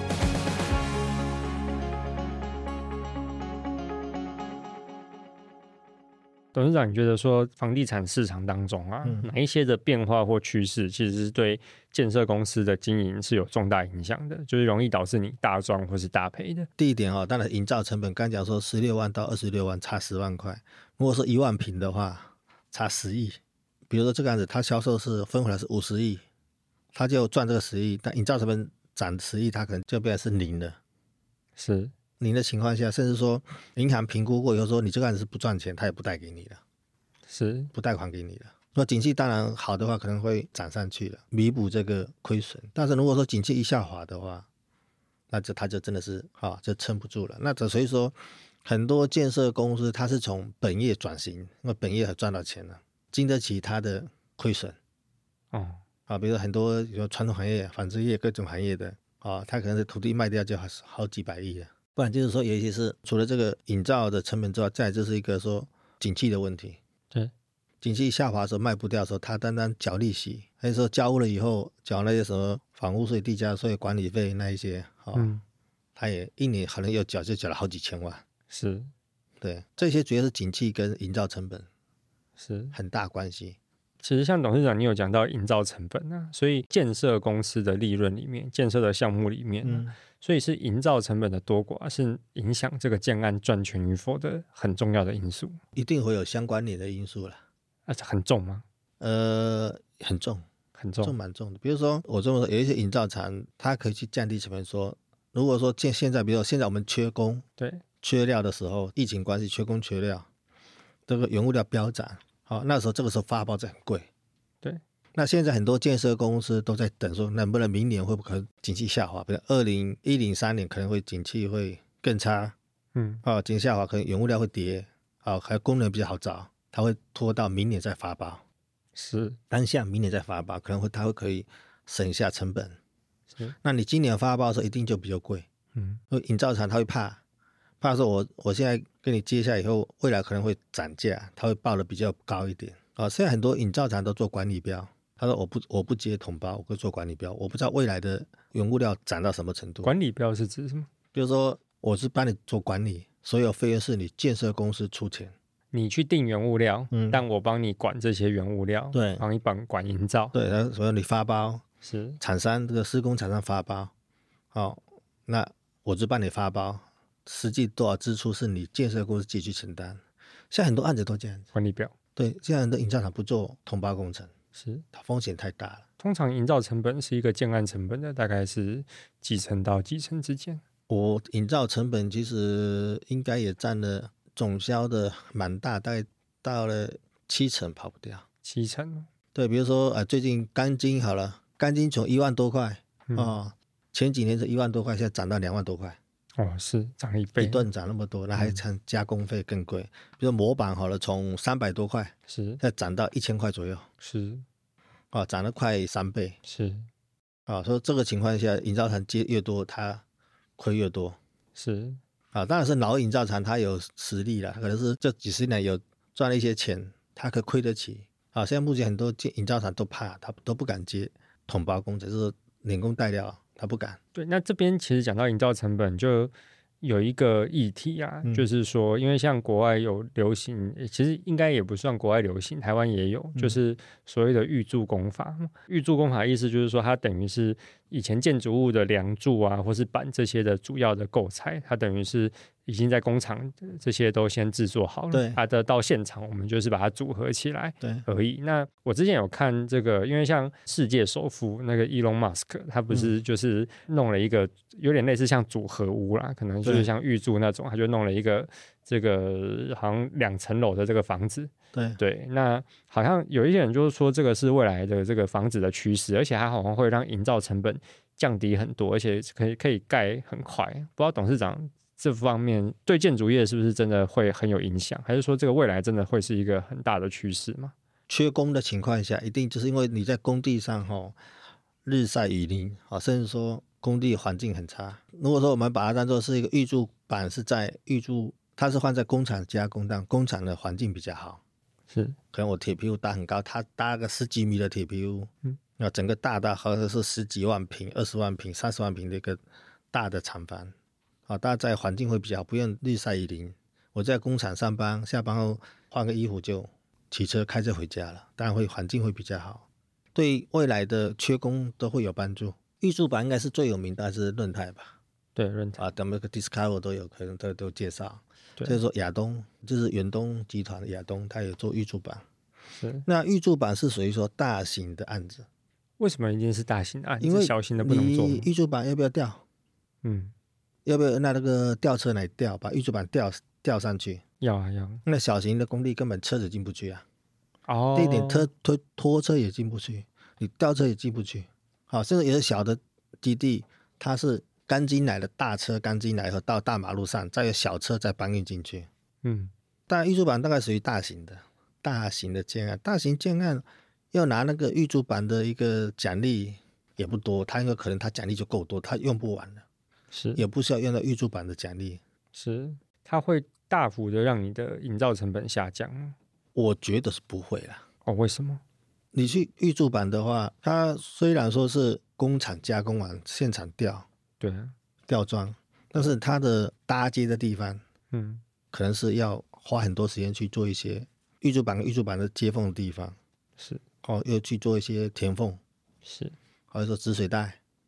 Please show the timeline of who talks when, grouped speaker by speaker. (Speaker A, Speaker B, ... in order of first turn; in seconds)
Speaker A: 6.5-16.7, 31.6-31.9, 37.3-37.7, 55.5-55.8, 75.1-75.4, 78.5-78.9, 82.4-82.8, 84.0-95.6, 97.9-98.6, 100.8-101.1, 107.6-107.8, 123.0-123.2, 128.9-129.4, 135.8-136.0, 149.8-150.9, 155.7-160.3, 161.8-162.2, 171.5-171.9, 174.6-174.8, 176.0-180.6, 188.4-189.1, 193.1-193.3, 196.4-197.7, 202.3-202.6, 204.0-204.4, 206.5-206.9, 211.6-212.0, 224.2-277.7, 291.9-292.2, 315.4-315.8, 322.8-323.1, 326.0-328.5, 330.0-330.3, 334.4-335.0, 337.7-338.5, 349.2-349.5, 360.1-360.4, 362.3-366.1, 368.1-368.6, 374.4-374.7, 378.1-378.4, 386.1-386.4
Speaker B: 9.0-9.3, 16.8-26.2, 26.9-30.8, 32.2-36.6, 37.7-44.5, 45.3-54.8, 56.1-66.8, 67.8-75.3, 76.0-78.2, 79.4-81.7, 82.7-83.6, 89.6-90.0, 95.8-97.4, 99.0-100.5, 101.0-107.4, 108.0-110.3, 111.1-114.1, 115.2-122.5, 123.2-128.4, 129.5-132.8, 133.6-135.5, 136.1-137.2, 137.8-149.9, 151.1-155.3, 156.9-157.2, 158.9-159.2, 160.3-161.6, 162.2-163.9, 164.5-171.5, 172.2-174.3, 174.9-175.8, 180.9-188.2, 189.3-196.0, 197.4-203.9, 205.1-206.4, 207.5-210.0, 210.6-211.2, 212.3-224.0, 245.1-245.4, 247.8-248.1, 252.9-253.2, 256.6-256.9, 261.7-262.0, 278.1-281.2, 281.9-291.4, 292.3-300.7, 301.3-314.9, 315.8-322.2, 323.1-325.5, 327.2-329.4, 330.9-334.2, 335.1-337.0, 337.9-348.9, 349.9-359.6, 360.4-362.0, 366.6-367.8, 369.1-374.1, 375.1-377.8, 378.7-383.2, 384.0-385.6, 386.7-387.6